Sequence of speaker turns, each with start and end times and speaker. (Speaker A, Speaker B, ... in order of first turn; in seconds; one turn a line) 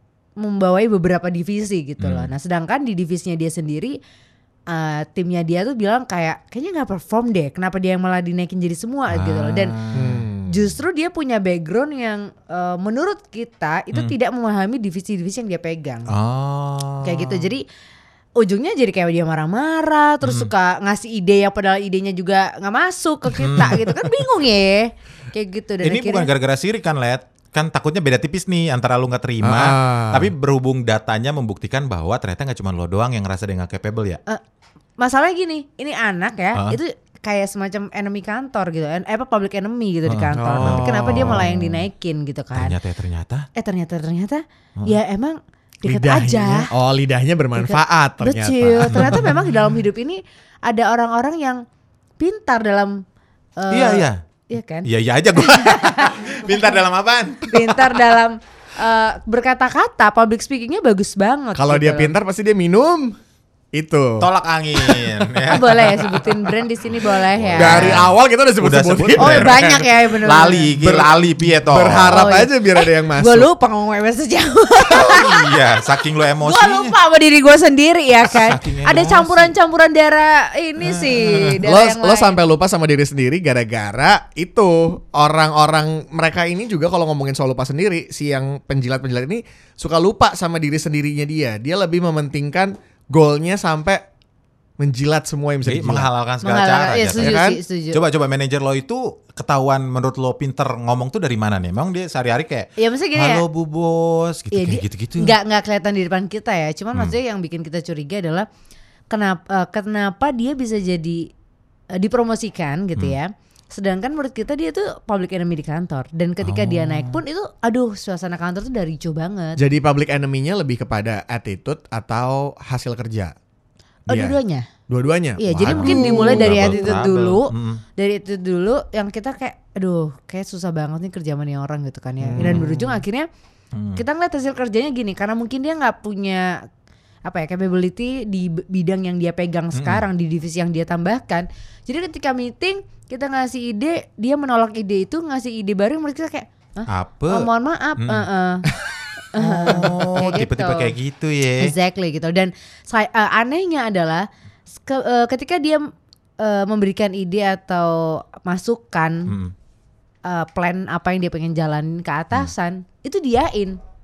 Speaker A: 0.4-4.0
Speaker B: 2.0-2.3
Speaker A: 4.7-9.7
Speaker B: 9.1-10.3
Speaker C: 9.9-10.5
Speaker A: 10.5-16.1
Speaker B: 16.1-17.5
Speaker A: 17.0-17.6
Speaker A: 18.4-26.3
Speaker B: 20.2-20.5
Speaker B: 23.3-23.8
Speaker B: 25.8-34.2
Speaker C: 29.4-30.3
Speaker A: 35.0-42.8
Speaker B: 40.1-41.6
Speaker C: 40.4-41.5
Speaker B: 42.5-43.5
Speaker A: 43.5-46.7
Speaker C: 45.9-49.3
Speaker A: 47.6-51.6
Speaker B: 48.9-49.3
Speaker A: 52.2-53.0
Speaker A: 53.6-56.6
Speaker B: 53.7-54.2
Speaker B: 54.9-57.9
Speaker A: 57.5-62.1
Speaker C: 61.5-63.2
Speaker C: 63.7-65.2
Speaker B: 64.2-66.0
Speaker A: 65.5-68.1
Speaker C: 65.8-66.3
Speaker B: 67.0-72.3
Speaker C: 67.5-69.8
Speaker A: 69.2-70.7
Speaker C: 70.8-73.5
Speaker A: 71.9-75.5
Speaker B: 75.1-77.0
Speaker A: 76.4-82.4
Speaker B: 78.3-79.5
Speaker B: 80.9-81.2
Speaker C: 81.3-94.0
Speaker C: 94.8-96.1
Speaker B: 95.6-97.4
Speaker A: 96.4-98.0
Speaker C: 97.2-97.6
Speaker B: 97.9-105.3
Speaker A: 102.8-103.4
Speaker A: 104.5-108.5
Speaker A: 109.1-111.3
Speaker A: 111.9-119.6
Speaker C: 116.5-117.2
Speaker C: 119.6-123.3
Speaker C: 124.1-124.4
Speaker A: 124.1-124.7
Speaker C: 124.9-127.0
Speaker A: 125.4-133.3
Speaker B: 125.6-127.8
Speaker C: 132.2-133.0
Speaker B: 133.7-134.0
Speaker A: 133.9-136.6
Speaker A: 137.2-148.7
Speaker B: 139.7-140.1
Speaker B: 146.9-147.5
Speaker B: 148.0-148.3
Speaker A: 149.3-150.9
Speaker B: 149.4-151.7
Speaker A: 151.6-154.2
Speaker A: 154.8-155.9
Speaker A: 156.4-159.3
Speaker B: 159.3-159.5
Speaker A: 160.2-163.8